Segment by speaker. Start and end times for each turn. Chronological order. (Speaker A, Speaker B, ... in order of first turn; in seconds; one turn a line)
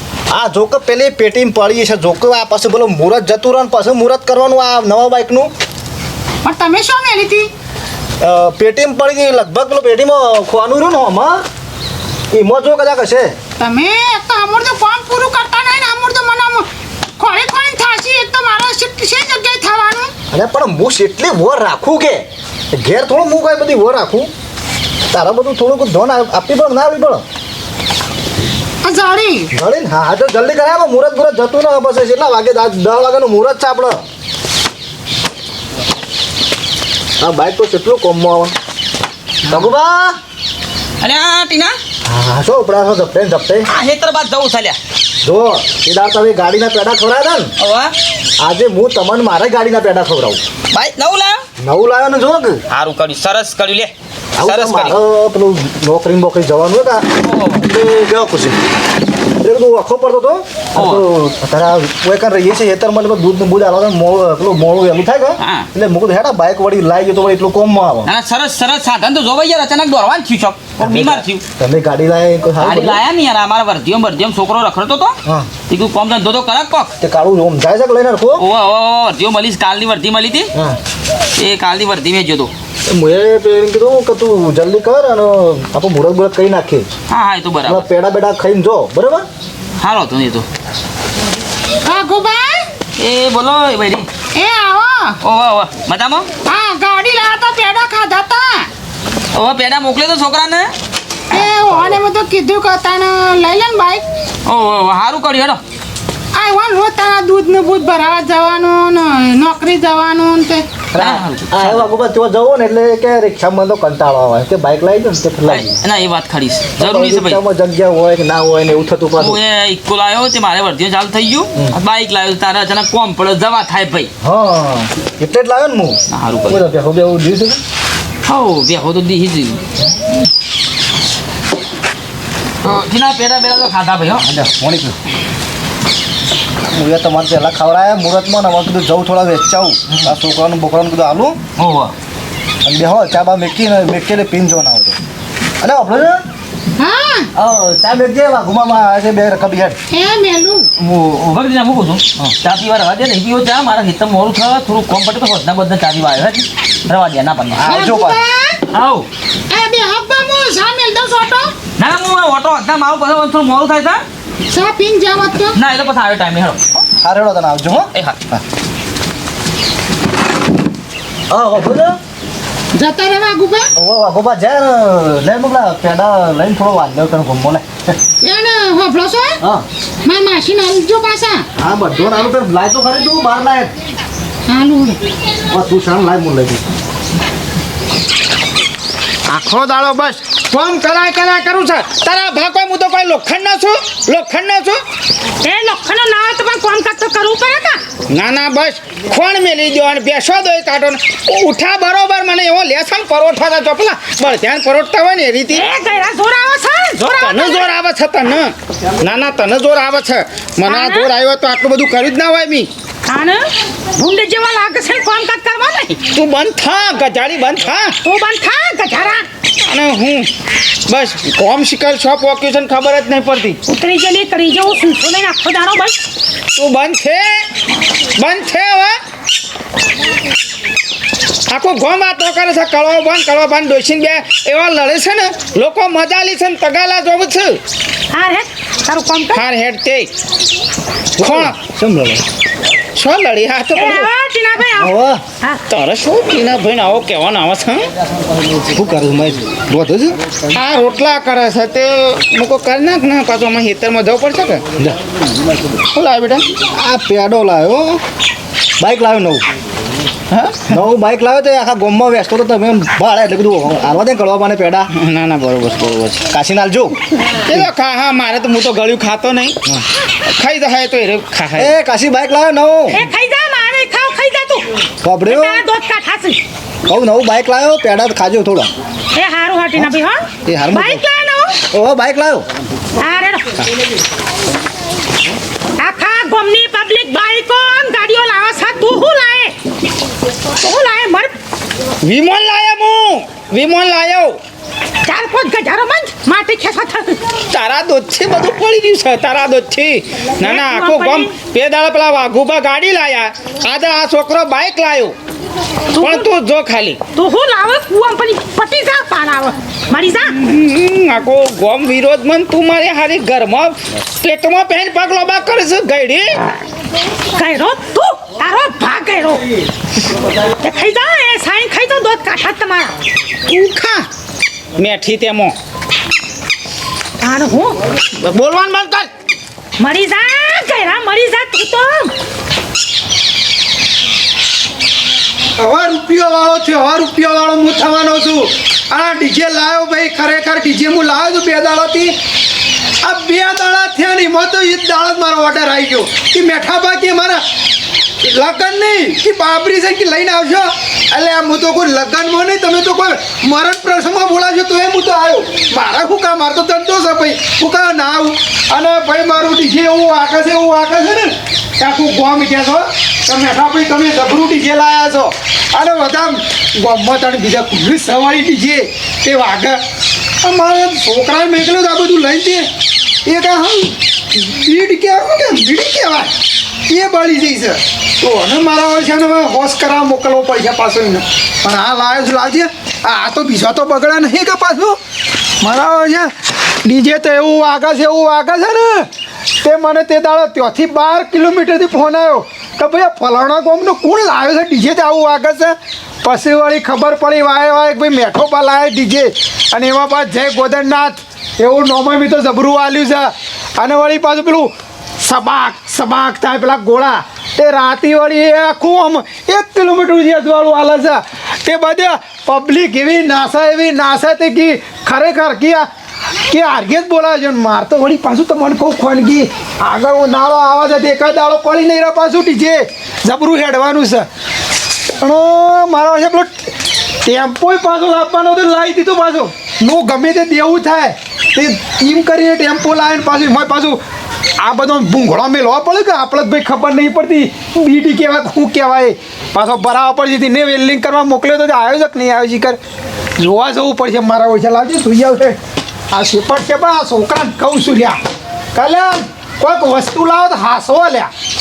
Speaker A: 0.3-5.5
Speaker B: 6.4-7.5
Speaker A: 8.2-11.4
Speaker A: 12.3-13.3
Speaker B: 13.6-16.6
Speaker B: 17.2-20.1
Speaker A: 20.3-24.3
Speaker A: 25.1-27.2
Speaker B: 28.8-29.5
Speaker A: 29.5-34.0
Speaker A: 37.2-38.5
Speaker A: 39.5-40.2
Speaker C: 41.0-41.8
Speaker A: 42.0-43.7
Speaker C: 43.7-44.8
Speaker A: 45.2-47.5
Speaker C: 47.6-47.9
Speaker A: 48.4-50.4
Speaker C: 50.7-51.4
Speaker A: 51.6-52.6
Speaker C: 52.7-55.0
Speaker A: 54.4-58.6
Speaker C: 57.2-57.6
Speaker A: 59.4-68.1
Speaker C: 60.7-61.0
Speaker C: 65.4-65.7
Speaker C: 68.0-71.4
Speaker A: 70.8-73.0
Speaker C: 72.6-75.2
Speaker C: 75.7-76.9
Speaker A: 77.0-78.4
Speaker C: 78.4-80.5
Speaker C: 81.4-82.5
Speaker A: 82.9-86.9
Speaker C: 87.1-87.8
Speaker A: 87.6-89.3
Speaker C: 89.8-90.5
Speaker B: 91.8-92.6
Speaker C: 93.0-94.1
Speaker B: 94.3-95.2
Speaker C: 95.2-96.3
Speaker B: 96.4-98.7
Speaker C: 99.3-100.7
Speaker B: 101.3-104.0
Speaker C: 104.5-105.6
Speaker B: 106.3-110.7
Speaker A: 110.9-115.8
Speaker C: 111.0-112.0
Speaker C: 115.5-117.4
Speaker A: 116.8-119.4
Speaker C: 119.2-124.1
Speaker A: 124.2-127.6
Speaker C: 126.1-126.6
Speaker C: 128.2-129.6
Speaker C: 132.6-134.3
Speaker A: 134.2-134.9
Speaker A: 136.6-141.4
Speaker C: 141.6-141.9
Speaker A: 142.6-144.9
Speaker A: 145.6-146.2
Speaker B: 146.8-147.3
Speaker A: 147.3-149.8
Speaker B: 149.9-150.7
Speaker C: 150.8-157.7
Speaker A: 157.5-158.2
Speaker B: 157.7-158.6
Speaker C: 158.7-159.1
Speaker B: 159.5-161.5
Speaker C: 161.8-164.0
Speaker B: 164.5-165.6
Speaker C: 165.5-166.6
Speaker A: 167.0-168.4
Speaker A: 171.3-172.0
Speaker B: 172.7-173.7
Speaker A: 173.8-178.0
Speaker B: 178.2-179.4
Speaker B: 180.0-181.4
Speaker A: 181.6-183.7
Speaker B: 184.5-185.0
Speaker A: 185.5-186.7
Speaker D: 189.3-194.8
Speaker B: 195.4-197.8
Speaker D: 198.1-205.7
Speaker B: 205.5-207.7
Speaker D: 207.0-212.7
Speaker B: 210.6-211.1
Speaker B: 213.1-216.0
Speaker D: 216.1-217.9
Speaker B: 218.0-219.3
Speaker D: 219.6-220.3
Speaker D: 220.9-223.6
Speaker B: 223.7-226.0
Speaker D: 226.5-227.5
Speaker D: 228.2-229.0
Speaker D: 231.5-237.6
Speaker B: 238.1-239.4
Speaker D: 239.3-240.1
Speaker A: 241.2-242.2
Speaker D: 241.2-241.5
Speaker D: 242.9-244.1
Speaker B: 243.7-245.6
Speaker A: 244.7-245.2
Speaker D: 245.7-247.9
Speaker A: 248.5-250.2
Speaker D: 250.5-254.6
Speaker D: 255.9-256.5
Speaker A: 256.7-258.0
Speaker A: 258.8-259.4
Speaker D: 260.3-260.8
Speaker A: 260.7-264.9
Speaker D: 264.9-266.3
Speaker A: 266.3-267.0
Speaker D: 267.4-269.6
Speaker D: 270.2-271.8
Speaker A: 271.5-273.0
Speaker B: 272.9-274.7
Speaker A: 275.0-275.6
Speaker B: 275.2-276.4
Speaker A: 276.8-278.7
Speaker B: 279.1-281.6
Speaker A: 280.4-281.0
Speaker A: 281.7-282.5
Speaker B: 283.0-283.5
Speaker B: 285.8-289.6
Speaker B: 290.6-291.4
Speaker D: 292.0-294.4
Speaker B: 295.0-297.2
Speaker D: 297.5-305.1
Speaker B: 300.4-301.3
Speaker B: 305.9-306.3
Speaker D: 305.9-307.0
Speaker B: 307.1-310.3
Speaker D: 310.3-316.5
Speaker B: 317.3-319.4
Speaker B: 320.6-322.9
Speaker D: 323.4-324.1
Speaker D: 324.8-325.6
Speaker B: 327.2-327.8
Speaker D: 328.1-329.1
Speaker B: 329.8-332.1
Speaker E: 335.6-342.1
Speaker E: 343.0-347.4
Speaker E: 348.2-369.8
Speaker E: 370.4-372.6
Speaker E: 373.2-376.3
Speaker E: 376.9-385.0
Speaker E: 385.6-386.3
Speaker E: 386.8-389.1
Speaker E: 389.6-415.8
Speaker E: 416.5-424.2
Speaker E: 425.2-426.7
Speaker E: 427.2-434.0
Speaker E: 434.6-442.8
Speaker E: 443.4-445.6
Speaker E: 446.1-448.2
Speaker E: 448.7-451.3